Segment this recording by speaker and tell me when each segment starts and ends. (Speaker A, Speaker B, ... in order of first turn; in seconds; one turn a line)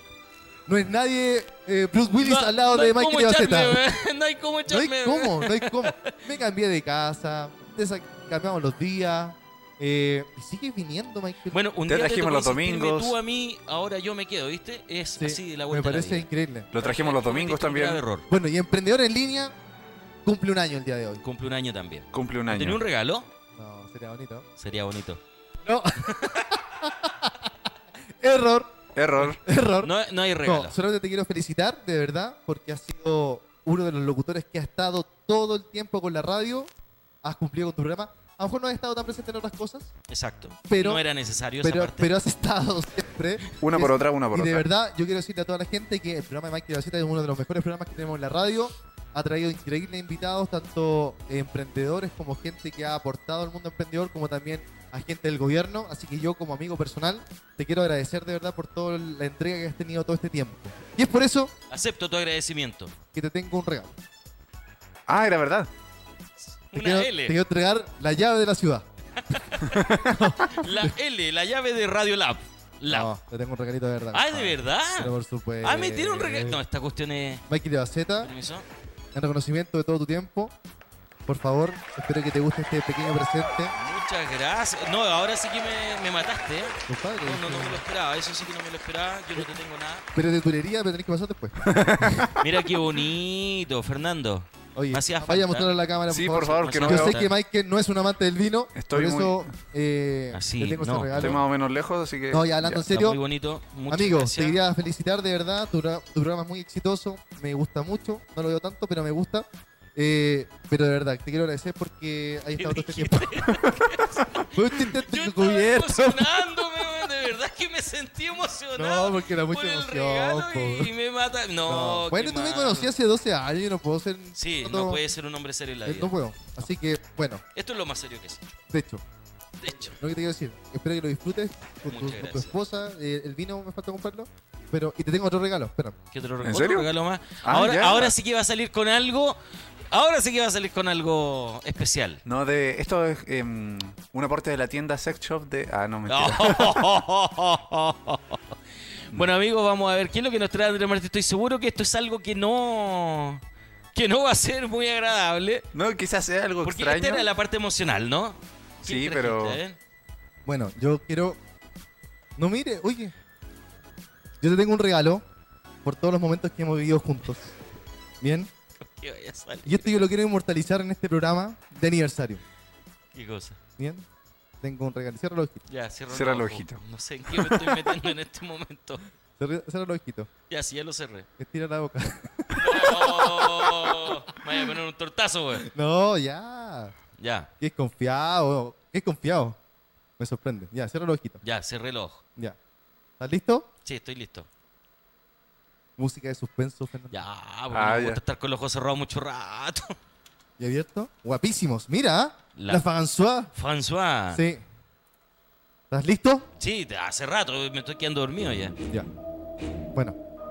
Speaker A: 0.7-3.8
Speaker B: 2.2-6.2
Speaker A: 4.7-11.6
Speaker B: 11.5-18.3
Speaker C: 11.9-13.2
Speaker A: 15.2-16.7
Speaker C: 16.7-18.0
Speaker A: 18.3-19.6
Speaker A: 20.2-21.2
Speaker B: 21.2-23.3
Speaker C: 22.1-22.8
Speaker A: 23.6-24.5
Speaker B: 24.6-25.2
Speaker A: 25.6-27.5
Speaker A: 28.2-36.7
Speaker C: 28.9-29.4
Speaker B: 29.8-30.8
Speaker A: 37.2-39.9
Speaker B: 40.1-42.1
Speaker A: 40.7-41.0
Speaker A: 41.6-61.5
Speaker C: 43.6-44.6
Speaker B: 61.7-63.0
Speaker A: 63.1-63.9
Speaker C: 65.1-65.7
Speaker B: 66.7-67.4
Speaker A: 66.8-68.8
Speaker B: 69.3-73.1
Speaker C: 69.7-70.2
Speaker A: 70.1-70.9
Speaker A: 72.9-76.6
Speaker B: 74.1-77.4
Speaker A: 77.5-78.3
Speaker B: 78.2-78.7
Speaker A: 79.1-80.5
Speaker A: 81.3-83.7
Speaker B: 83.8-90.1
Speaker A: 86.9-87.8
Speaker A: 90.1-92.3
Speaker C: 91.7-92.3
Speaker B: 92.4-95.7
Speaker A: 94.8-101.4
Speaker C: 96.1-97.2
Speaker B: 96.6-97.3
Speaker C: 98.8-99.5
Speaker B: 100.3-101.4
Speaker C: 101.2-102.8
Speaker A: 102.3-103.2
Speaker B: 102.9-104.6
Speaker A: 103.9-113.7
Speaker B: 112.5-122.9
Speaker A: 114.5-117.0
Speaker A: 118.8-120.9
Speaker A: 121.7-125.0
Speaker B: 124.3-126.2
Speaker A: 125.8-127.4
Speaker B: 127.5-128.5
Speaker A: 128.7-129.0
Speaker B: 129.6-129.9
Speaker A: 129.7-136.0
Speaker B: 131.9-132.6
Speaker B: 136.1-139.4
Speaker C: 136.4-136.9
Speaker C: 137.4-138.2
Speaker B: 139.9-142.2
Speaker C: 142.2-147.0
Speaker B: 146.1-148.4
Speaker B: 149.1-153.4
Speaker B: 153.9-155.7
Speaker C: 155.7-157.3
Speaker B: 156.6-159.8
Speaker C: 158.8-159.6
Speaker A: 160.4-161.4
Speaker A: 162.4-163.1
Speaker A: 164.4-165.2
Speaker A: 165.8-167.6
Speaker A: 168.2-168.5
Speaker B: 168.8-170.1
Speaker A: 169.7-172.4
Speaker B: 173.1-173.6
Speaker A: 173.8-174.1
Speaker A: 174.6-175.7
Speaker B: 175.7-179.0
Speaker C: 176.1-176.8
Speaker A: 177.6-177.9
Speaker A: 179.4-180.3
Speaker B: 180.5-181.3
Speaker A: 181.4-184.1
Speaker B: 182.6-185.7
Speaker A: 185.6-186.9
Speaker B: 187.2-187.5
Speaker A: 187.6-189.6
Speaker A: 190.2-191.4
Speaker B: 191.4-192.2
Speaker A: 193.2-193.7
Speaker B: 193.8-194.5
Speaker A: 196.0-197.2
Speaker B: 197.1-199.9
Speaker C: 197.7-198.2
Speaker A: 200.6-203.5
Speaker B: 202.6-202.8
Speaker B: 203.5-204.4
Speaker A: 204.3-204.6
Speaker A: 205.9-206.5
Speaker B: 206.6-208.8